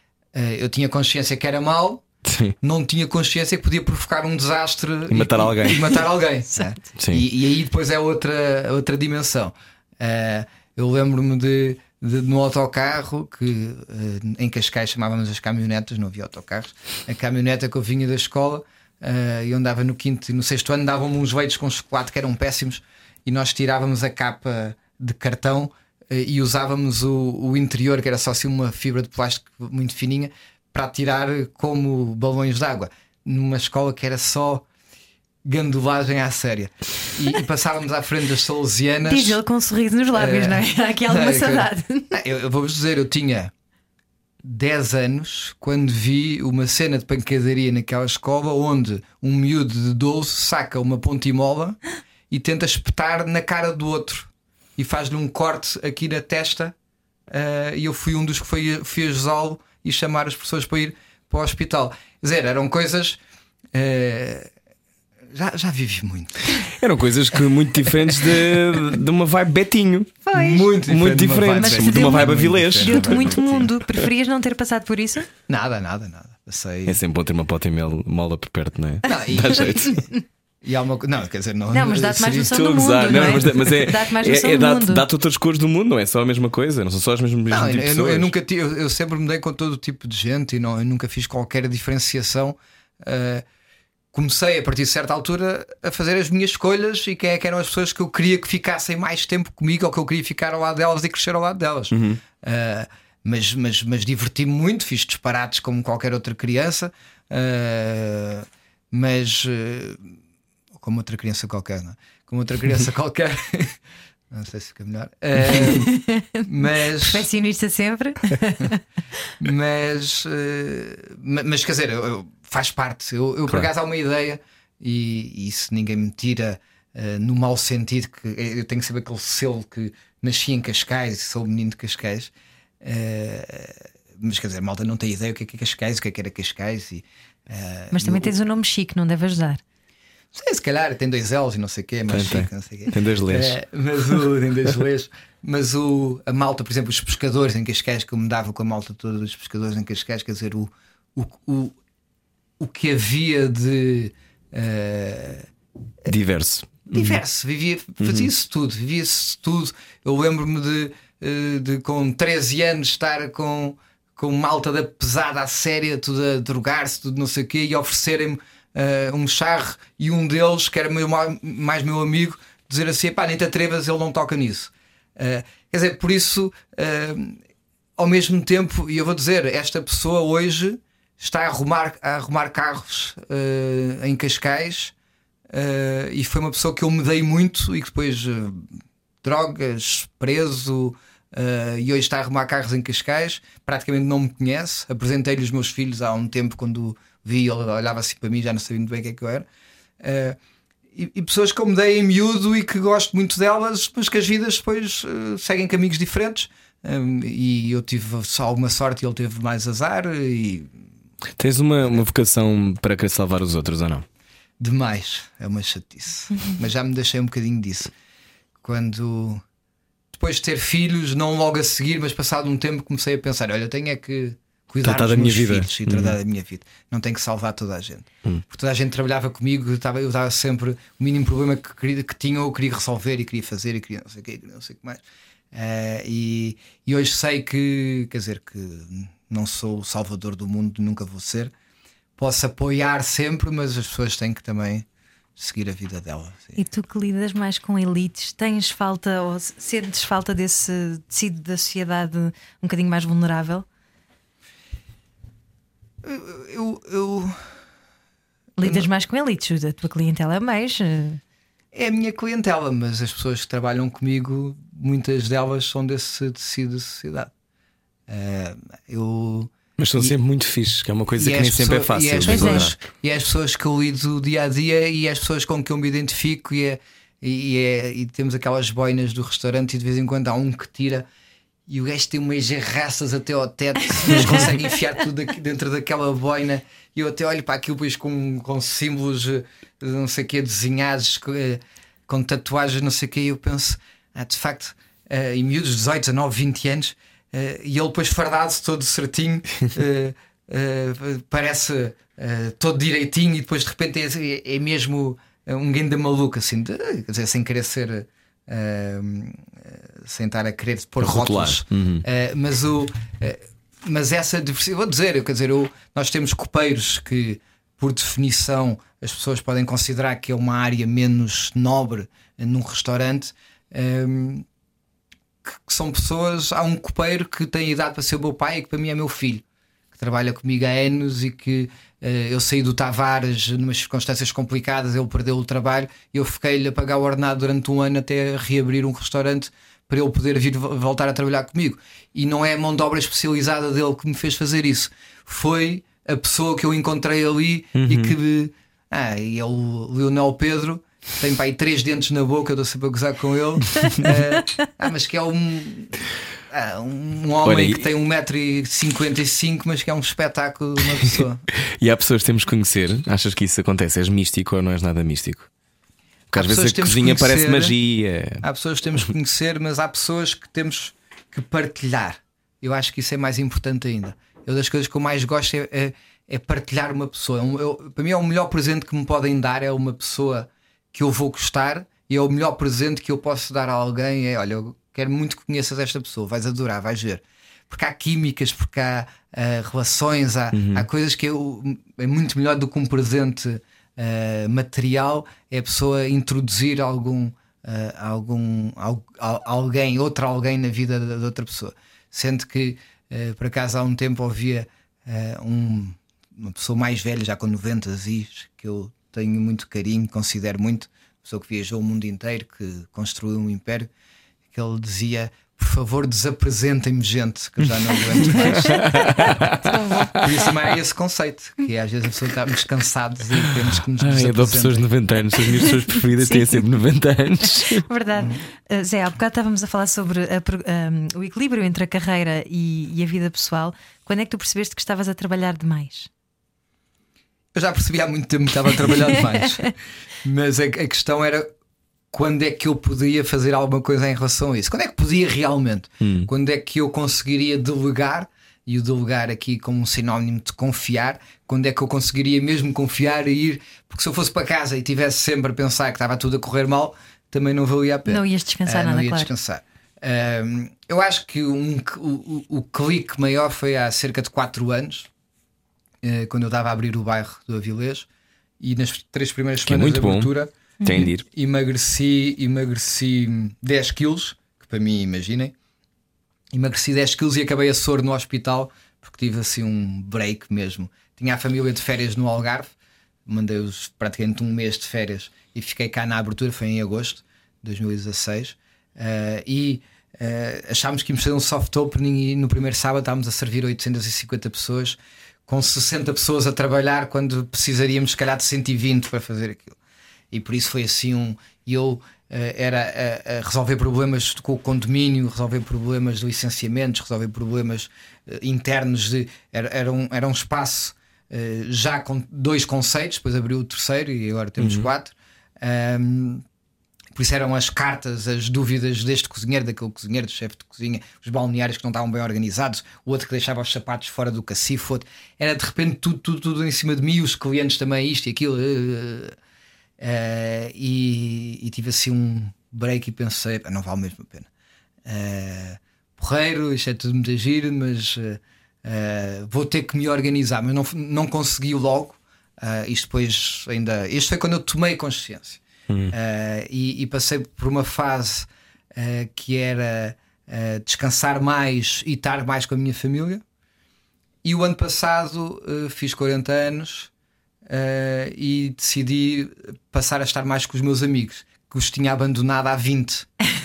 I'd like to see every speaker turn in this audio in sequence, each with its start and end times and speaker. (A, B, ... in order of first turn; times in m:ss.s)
0:00.3-0:02.0 A
0:02.3-0:02.5 B
0:02.6-0:34.6 A
0:05.1-0:05.9 B
0:07.0-0:07.3 B
0:35.4-0:39.4 A
0:39.1-0:42.1 C
0:40.1-0:43.5 A
0:44.4-0:51.8 A
0:52.3-0:56.7 A
0:57.3-1:03.2 A
1:03.7-1:04.5 A
1:05.3-1:06.6 A
1:06.7-1:10.2 B
1:10.3-1:10.7 C
1:10.3-1:13.7 A
1:10.8-1:14.0 B
1:11.6-1:15.3 C
1:15.5-1:17.0 A
1:16.9-1:20.0 B
1:19.0-1:20.1 A
1:20.6-1:23.4 A
1:21.7-1:25.0 C
1:22.4-1:28.3 B
1:27.5-1:33.4 A
1:34.1-1:50.2 A
1:41.9-1:42.2 B
1:50.8-1:53.8 A
1:54.3-1:57.2 A
1:55.5-1:58.8 C
1:59.4-2:18.3 A
2:17.9-2:19.6 C
2:20.3-2:31.8 A
2:22.1-2:23.6 B
2:32.6-2:35.5 A
2:36.1-2:37.2 B
2:36.9-2:57.4 A
2:38.0-2:38.3 B
2:58.0-3:04.9 A
3:05.5-3:19.4 A
3:20.0-3:20.4 A
3:20.9-3:30.7 A
3:31.4-3:34.0 B
3:34.6-3:37.9 A
3:38.6-3:39.4 A
3:40.1-3:55.0 A
3:44.8-3:46.2 B
3:55.5-4:01.5 A
4:02.2-4:06.6 A
4:06.6-4:13.6 C
4:16.0-4:17.4 A
4:18.6-4:21.2 C
4:21.7-4:27.3 A
4:28.1-4:30.1 A
4:29.8-4:32.7 B
4:31.2-4:41.0 A
4:32.2-4:32.7 C
4:41.7-5:24.4 A
5:11.0-5:12.0 B
5:25.4-6:01.4 A
5:47.8-5:48.1 B
5:57.4-5:57.9 B
6:01.8-6:05.5 B
6:06.3-6:08.4 B
6:06.3-6:07.8 A
6:08.4-6:53.9 A
6:30.5-6:30.9 B
6:54.5-6:59.5 A
6:58.2-7:00.3 B
7:00.1-7:04.9 A
7:04.0-7:07.9 B
7:05.6-7:06.6 C
7:07.5-7:16.1 C
7:17.5-7:21.5 A
7:22.1-7:45.1 A
7:26.0-7:26.3 B
7:38.1-7:39.3 C
7:46.0-7:48.1 A
7:48.6-7:55.5 A
7:49.6-7:51.2 B
7:50.8-7:51.1 C
7:56.5-8:02.7 A
8:03.3-8:19.8 A
8:20.3-8:36.4 A
8:34.6-8:34.9 B
8:37.1-8:49.4 A
8:50.0-8:54.5 A
8:55.0-9:13.4 A
9:05.9-9:06.1 B
9:14.4-9:17.1 A
9:17.7-9:23.3 A